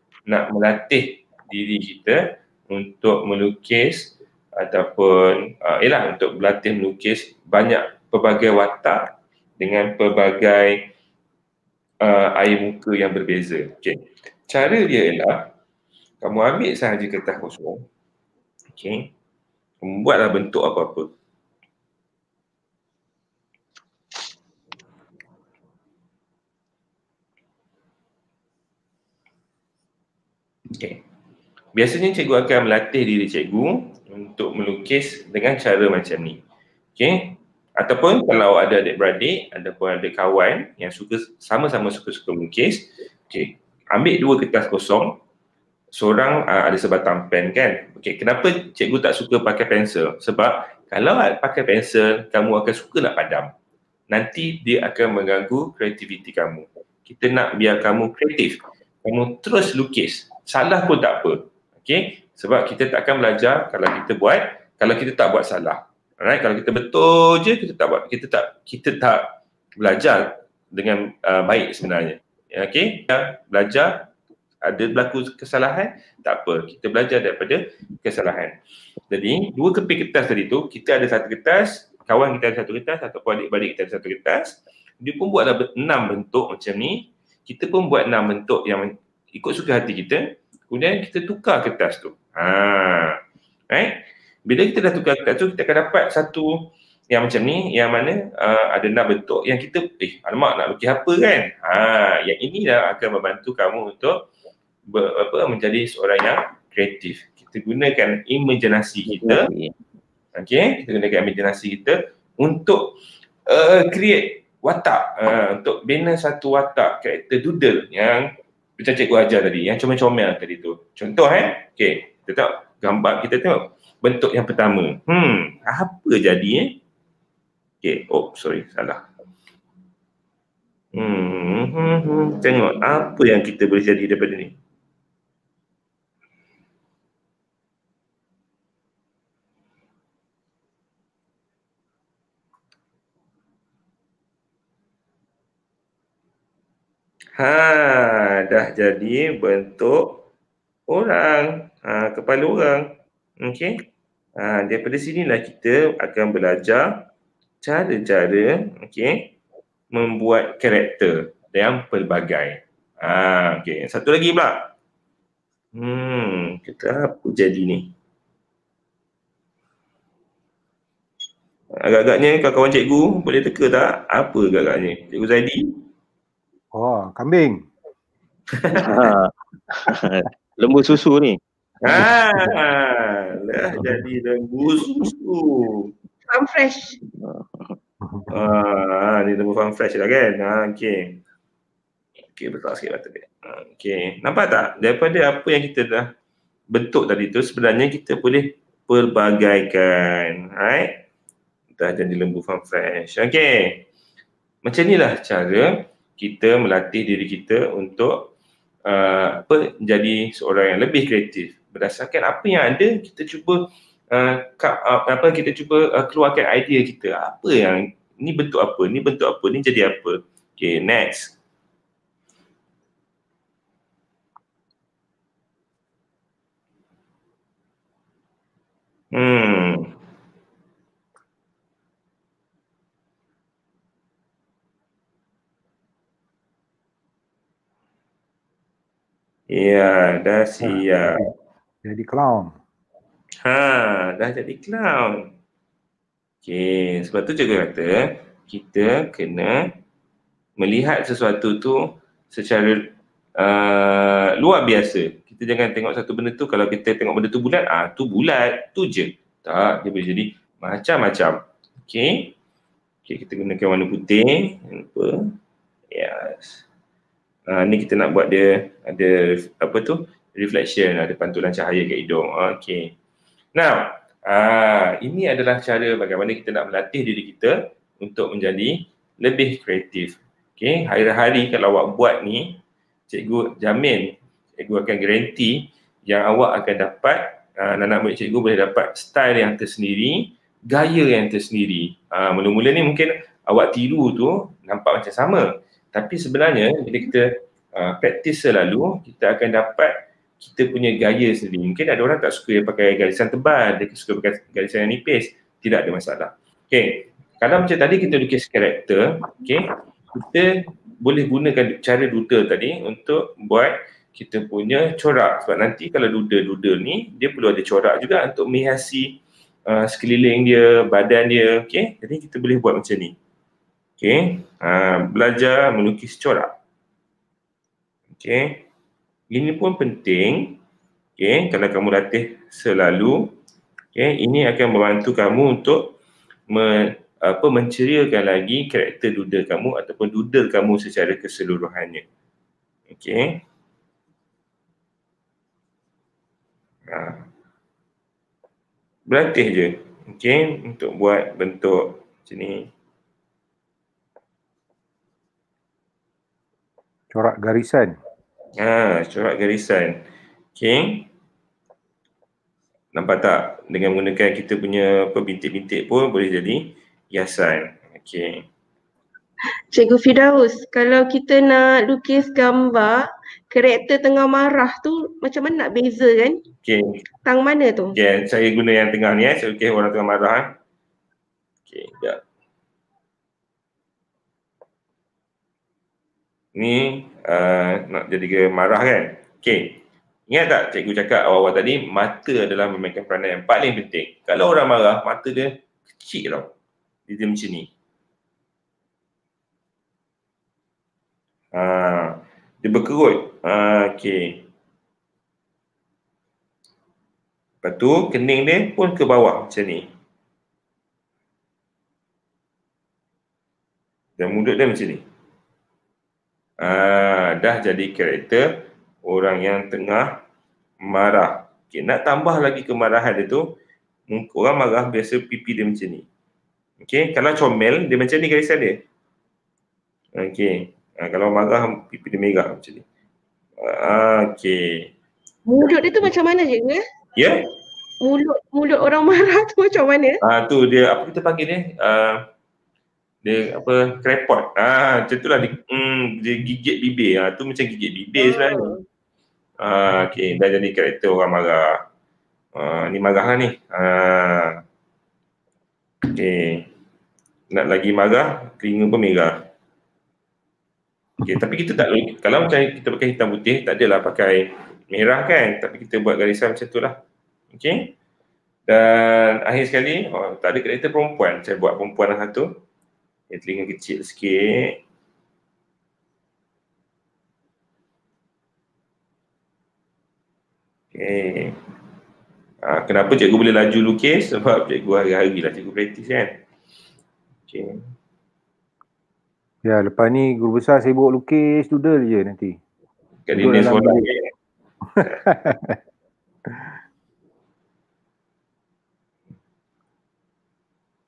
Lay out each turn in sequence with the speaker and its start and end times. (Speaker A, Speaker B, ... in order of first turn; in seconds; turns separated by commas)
Speaker A: 0.3-10.9, Speaker A: 12.0-15.5, Speaker A: 16.2-17.9, Speaker A: 18.7-19.1, Speaker A: 19.8-21.1, Speaker A: 30.7-31.0, Speaker A: 31.7-36.4, Speaker A: 37.0-45.2, Speaker A: 45.9-53.5, Speaker A: 54.1-74.1, Speaker A: 74.6-78.5, Speaker A: 79.1-93.2, Speaker A: 93.7-104.2, Speaker A: 104.9-109.5, Speaker B: 109.1-109.7, Speaker A: 110.3-112.9, Speaker A: 113.5-126.8, Speaker A: 127.8-129.0, Speaker A: 130.9-134.5, Speaker A: 147.3-150.2, Speaker A: 150.9-152.9, Speaker A: 153.4-153.8, Speaker A: 154.4-157.0, Speaker A: 157.6-159.3, Speaker A: 159.9-164.7, Speaker A: 165.7-167.9, Speaker A: 171.7-175.8, Speaker C: 176.7-177.7, Speaker A: 178.5-179.1, Speaker B: 178.8-181.4, Speaker A: 181.8-185.9, Speaker C: 181.9-182.5, Speaker C: 183.7-184.0, Speaker D: 186.3-186.9, Speaker B: 187.2-187.8, Speaker A: 188.3-191.2, Speaker A: 192.3-196.1, Speaker A: 196.7-201.0, Speaker A: 201.8-203.8, Speaker A: 204.6-208.3, Speaker A: 208.8-221.3, Speaker A: 229.1-229.9, Speaker A: 239.5-241.2, Speaker C: 240.6-241.3, Speaker C: 241.8-242.6, Speaker A: 243.4-245.3, Speaker A: 246.4-249.7, Speaker A: 250.6-262.3, Speaker A: 263.1-265.2, Speaker A: 265.9-266.6, Speaker A: 267.5-272.9, Speaker A: 273.5-323.1, Speaker A: 324.0-326.5, Speaker A: 328.1-328.6, Speaker A: 329.3-330.6, Speaker A: 331.2-333.3, Speaker A: 333.9-335.9, Speaker A: 336.5-342.0, Speaker A: 342.9-343.4, Speaker A: 346.9-347.2, Speaker A: 349.1-352.7, Speaker C: 357.1-358.0, Speaker A: 358.6-360.0, Speaker A: 360.6-361.1, Speaker A: 362.9-368.4, Speaker D: 369.7-376.4, Speaker A: 376.6-377.0, Speaker D: 377.2-377.9, Speaker A: 377.9-380.5, Speaker A: 381.7-382.2, Speaker A: 386.5-396.5, Speaker A: 397.1-397.7, Speaker A: 401.5-404.4, Speaker A: 407.6-409.9, Speaker A: 414.2-415.0, Speaker A: 416.6-420.2, Speaker A: 420.8-423.5, Speaker A: 424.1-426.0, Speaker A: 426.8-428.8, Speaker A: 430.1-432.8, Speaker A: 433.6-434.9, Speaker D: 435.5-436.8, Speaker A: 437.1-437.4, Speaker D: 438.0-440.2, Speaker A: 440.2-442.2, Speaker A: 443.2-448.8, Speaker D: 448.2-448.8, Speaker A: 449.6-451.8, Speaker A: 452.5-454.6, Speaker A: 456.0-456.7, Speaker A: 457.5-459.4, Speaker A: 461.2-467.0, Speaker A: 467.5-467.9, Speaker A: 468.7-472.5, Speaker A: 473.3-474.8, Speaker A: 480.9-481.6, Speaker A: 482.6-486.4, Speaker A: 487.5-487.8, Speaker C: 489.6-492.6, Speaker A: 493.2-494.3, Speaker C: 493.3-494.1, Speaker C: 494.9-495.8